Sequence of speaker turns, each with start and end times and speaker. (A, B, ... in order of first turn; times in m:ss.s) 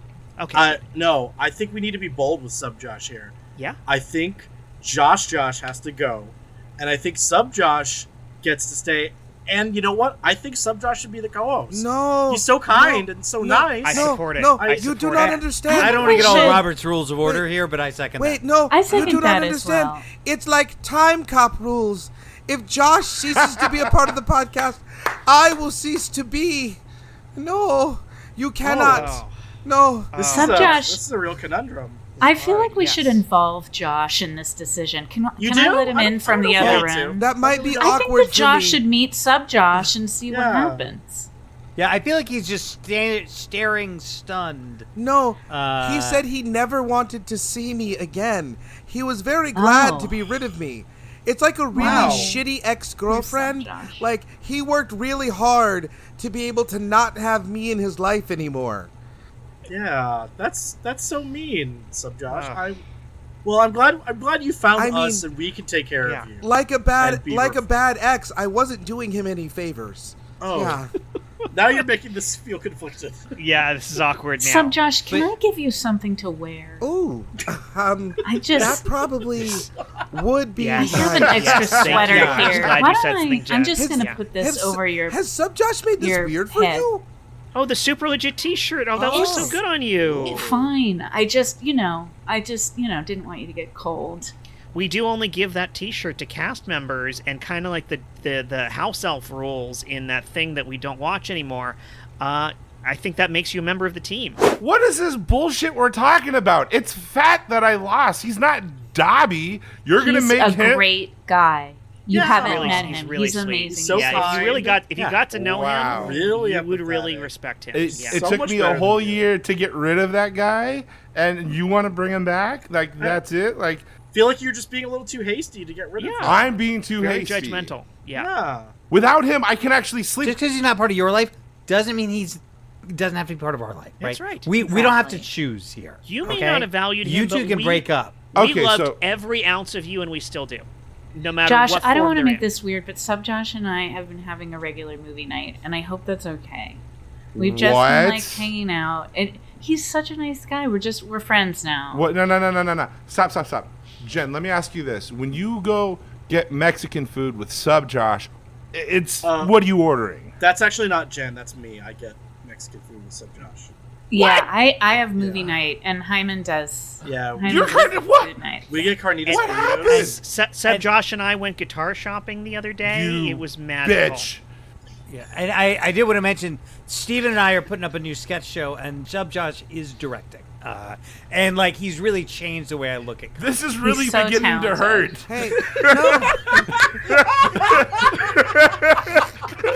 0:00.4-0:00.8 A
0:00.5-0:03.3 B
0:03.9-0:16.5 B
0:11.7-0:16.6 C
0:13.8-0:15.2 A
0:15.2-0:18.4 D
0:15.7-0:16.7 E
0:18.2-0:26.8 C
0:18.7-0:20.1 E
0:27.3-0:30.1 C
0:28.6-0:29.2 B
0:28.9-0:29.3 A
0:30.1-0:32.8 B
0:30.1-0:30.7 A
0:30.2-0:31.0 E
0:32.2-0:41.3 E
0:32.4-0:33.2 A
0:35.4-0:38.0 B
0:36.6-0:36.8 A
0:37.2-0:38.8 C
0:40.3-0:40.9 B
0:41.8-0:44.9 D
0:45.0-0:58.9 C
0:45.5-0:46.2 D
0:49.6-0:50.2 E
0:51.7-0:52.5 E
0:51.8-0:52.4 B
0:53.1-0:54.0 E
0:59.7-1:02.8 B
1:02.3-1:02.6 A
1:03.4-1:06.4 B
1:04.8-1:05.2 C
1:06.4-1:10.9 C
1:07.0-1:07.6 B
1:10.4-1:10.8 B
1:11.5-1:13.3 B
1:13.3-1:14.8 A
1:14.4-1:16.8 E
1:16.8-1:21.8 C
1:18.2-1:18.9 E
1:20.6-1:24.2 A
1:20.8-1:25.2 E
1:21.1-1:22.1 F
1:22.0-1:22.7 B
1:22.0-1:22.8 D
1:23.7-1:27.0 C
1:26.0-1:26.9 E
1:27.5-1:30.5 A
1:29.0-1:29.6 C
1:29.1-1:29.5 E
1:30.1-1:30.7 B
1:30.2-1:34.3 E
1:34.7-1:44.4 A
1:44.6-1:50.9 F
1:50.0-1:54.7 E
1:52.1-1:53.0 B
1:52.4-1:58.2 A
1:53.6-1:55.1 B
1:55.3-1:56.3 F
1:55.9-1:57.3 B
1:57.7-2:03.9 F
1:57.9-1:59.3 B
2:04.1-2:06.5 B
2:06.0-2:06.4 A
2:06.2-2:07.7 F
2:07.0-2:08.3 A
2:08.1-2:08.7 B
2:08.9-2:10.4 F
2:10.2-2:18.2 D
2:14.0-2:14.4 A
2:14.6-2:15.3 E
2:16.0-2:22.4 A
2:18.3-2:19.0 F
2:21.4-2:26.8 E
2:27.4-2:28.5 F
2:27.4-2:32.0 E
2:31.9-2:40.4 F
2:39.2-2:39.5 B
2:40.4-2:43.7 B
2:44.1-2:48.9 E
2:45.2-2:45.6 B
2:47.0-2:47.8 B
2:47.4-2:48.4 F
2:48.7-2:50.1 B
2:49.2-2:54.3 A
2:49.3-2:50.2 F
2:52.8-2:54.4 F
2:55.1-3:03.4 D
3:03.4-3:09.3 F
3:03.8-3:05.1 E
3:05.3-3:06.6 C